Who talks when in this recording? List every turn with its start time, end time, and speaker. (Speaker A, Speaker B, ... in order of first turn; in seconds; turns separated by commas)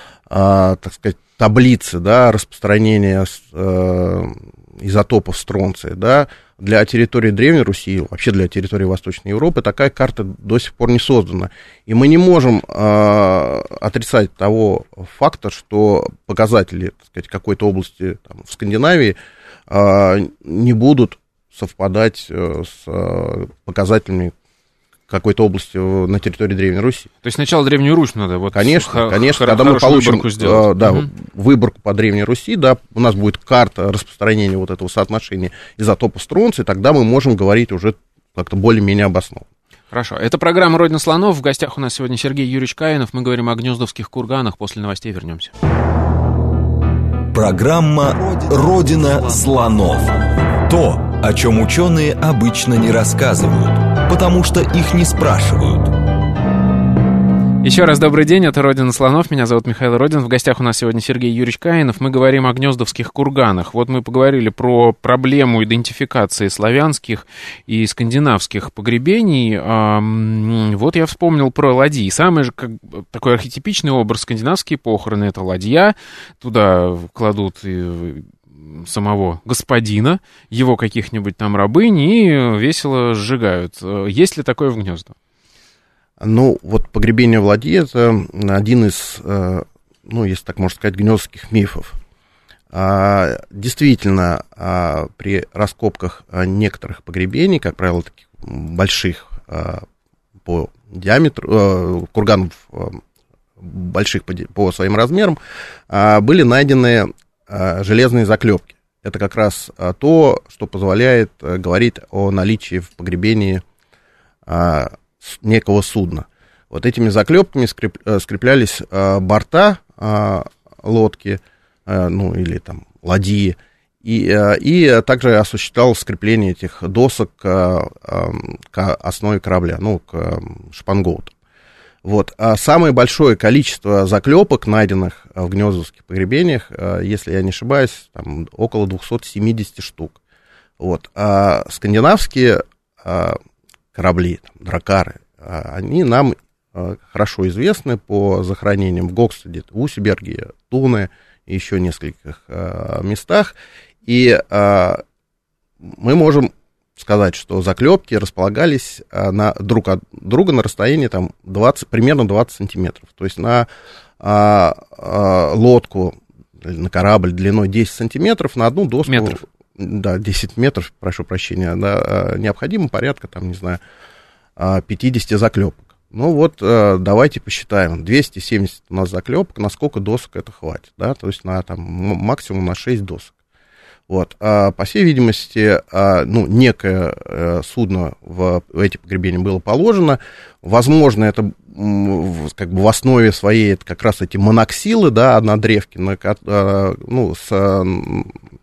Speaker A: 0.3-19.2, Speaker A: 19.7-24.3, Speaker A: 25.1-27.1, Speaker B: 27.2-31.1, Speaker A: 28.5-39.5, Speaker B: 39.9-45.5, Speaker C: 47.3-55.9, Speaker B: 57.6-85.1, Speaker A: 86.2-92.0, Speaker A: 92.7-99.8, Speaker A: 100.5-103.0, Speaker A: 103.6-105.4, Speaker A: 105.9-113.6, Speaker A: 114.5-131.3, Speaker A: 132.0-140.2, Speaker A: 140.8-143.4, Speaker A: 143.9-153.6, Speaker A: 154.1-155.0, Speaker A: 155.8-163.7, Speaker A: 164.2-173.8, Speaker B: 169.1-169.4, Speaker A: 174.6-183.3, Speaker A: 184.1-198.4